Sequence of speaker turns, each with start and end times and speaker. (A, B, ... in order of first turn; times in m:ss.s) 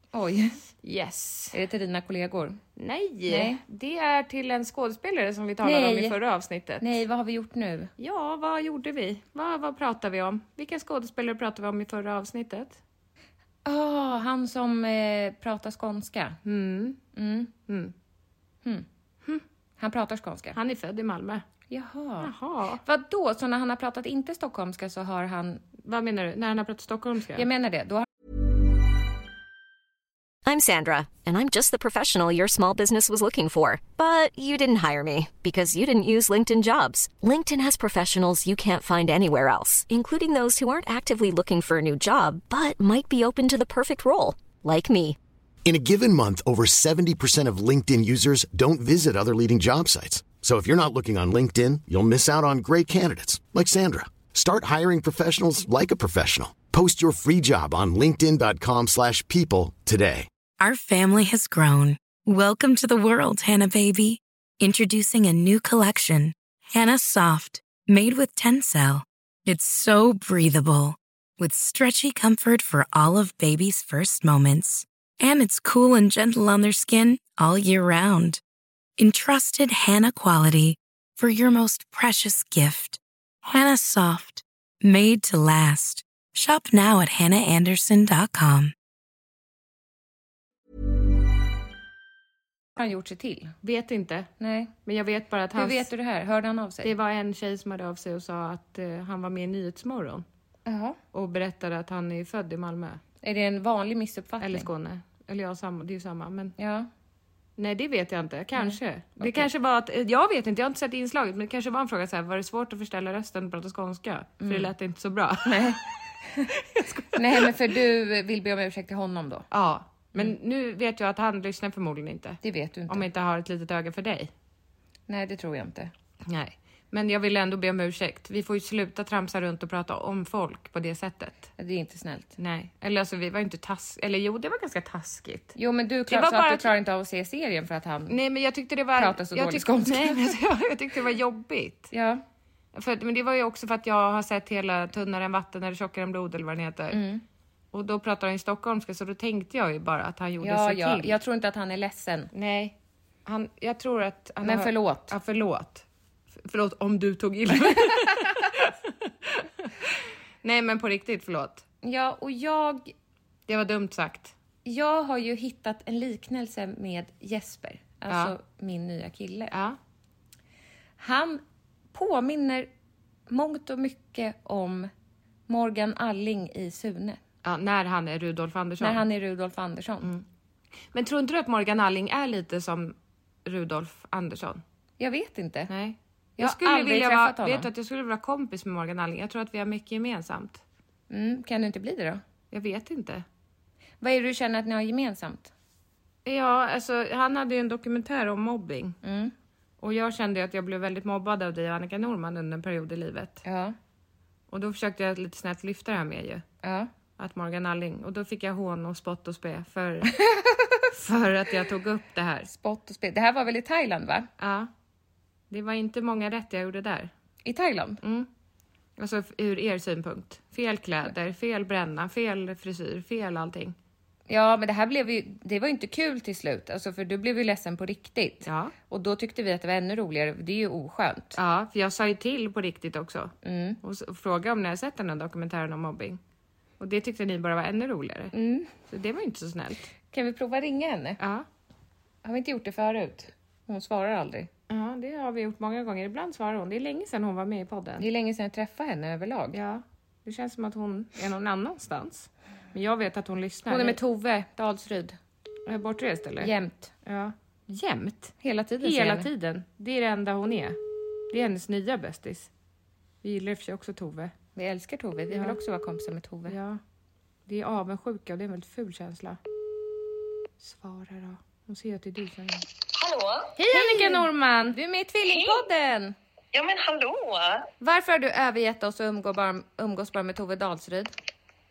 0:00.1-0:00.6 A
0:00.8-0:01.6 B
0:01.5-0:02.6 A
0:02.8-0:07.0 B
0:03.3-0:03.6 A
0:05.6-0:06.2 A
0:06.8-0:07.9 A
0:08.0-0:12.8 B
0:13.6-0:16.4 A
0:16.4-0:17.0 B
0:17.1-0:17.5 A
0:17.7-0:17.9 B
0:19.8-0:20.6 A
0:20.5-0:21.4 B
0:21.7-0:22.3 A
0:22.2-0:22.8 B
0:22.8-0:25.6 A
0:25.8-0:27.5 B
0:27.4-0:28.1 A
0:30.4-0:45.2 C
0:45.6-1:00.3 D
1:00.6-1:18.4 E
1:19.0-1:28.7 E
1:32.8-1:33.6 A
1:33.6-1:34.3 B
1:34.4-1:34.7 A
1:34.9-1:35.9 B
1:35.6-1:36.9 A
1:36.8-1:40.2 B
1:40.6-1:41.0 A
1:41.1-1:43.0 B
1:43.2-1:44.7 A
1:44.4-1:46.5 B
1:46.6-1:46.9 A
1:47.6-1:55.8 B
1:48.6-1:49.5 A
1:54.4-1:54.7 A
1:55.5-1:56.5 A
1:56.5-1:57.6 B
1:57.1-1:59.5 A
1:59.5-2:04.3 B
2:02.4-2:03.1 A
2:05.1-2:05.9 A
2:06.3-2:11.4 B
2:11.6-2:12.4 A
2:12.4-2:16.7 B
2:15.6-2:18.2 A
2:18.1-2:21.9 B
2:19.0-2:20.4 A
2:21.9-2:22.2 A
2:22.7-2:27.0 B
2:26.9-2:27.2 A
2:27.7-2:31.2 B
2:30.4-2:32.3 A
2:32.3-2:35.8 B
2:34.4-2:35.1 A
2:36.4-2:39.9 B
2:37.7-2:38.3 A
2:40.4-2:41.6 B
2:41.8-2:42.9 A
2:43.5-2:44.3 B
2:44.6-2:49.5 A
2:48.1-2:48.4 B
2:49.5-2:49.8 B
2:51.0-2:51.4 A
2:51.9-2:52.7 A
2:53.3-2:54.9 A
2:55.5-2:57.2 A
2:57.4-2:59.0 B
2:58.8-3:00.1 A
3:00.9-3:04.6 B
3:05.0-3:05.7 A
3:05.7-3:10.6 B
3:06.4-3:07.7 A
3:11.1-3:12.2 A
3:12.5-3:13.2 B
3:14.0-3:15.5 A
3:16.2-3:19.0 B
3:19.0-3:19.3 A
3:19.8-3:23.4 B
3:23.4-3:23.8 A
3:24.5-3:26.4 B
3:26.6-3:26.9 A
3:27.2-3:30.2 B
3:30.1-3:30.9 A
3:30.9-3:32.5 B
3:32.5-3:34.3 A
3:34.4-3:34.7 B
3:35.5-3:37.1 B
3:37.4-3:38.0 A
3:38.0-3:38.3 B
3:39.0-3:43.8 B
3:44.3-3:51.4 A
3:48.4-3:48.7 B
3:51.4-3:56.2 B
3:53.4-3:53.8 A
3:56.8-3:58.3 B
3:58.3-3:58.7 A
3:58.9-3:59.9 B
4:00.1-4:01.2 A
4:01.2-4:01.4 B
4:02.2-4:04.5 A
4:04.7-4:08.1 B
4:08.0-4:09.6 A
4:09.5-4:14.0 B
4:13.7-4:15.2 A
4:15.7-4:16.5 B
4:16.4-4:16.9 A
4:17.0-4:20.8 B
4:18.4-4:19.3 A
4:21.3-4:22.5 B
4:23.2-4:24.3 B
4:24.6-4:26.6 A
4:25.3-4:25.6 B
4:26.5-4:26.8 B
4:27.5-4:29.4 B
4:30.6-4:32.6 B
4:32.9-4:33.6 F
4:33.6-4:34.8 B
4:33.7-4:36.2 A
4:35.3-4:35.7 F
4:36.5-4:37.7 F
4:37.8-4:41.1 A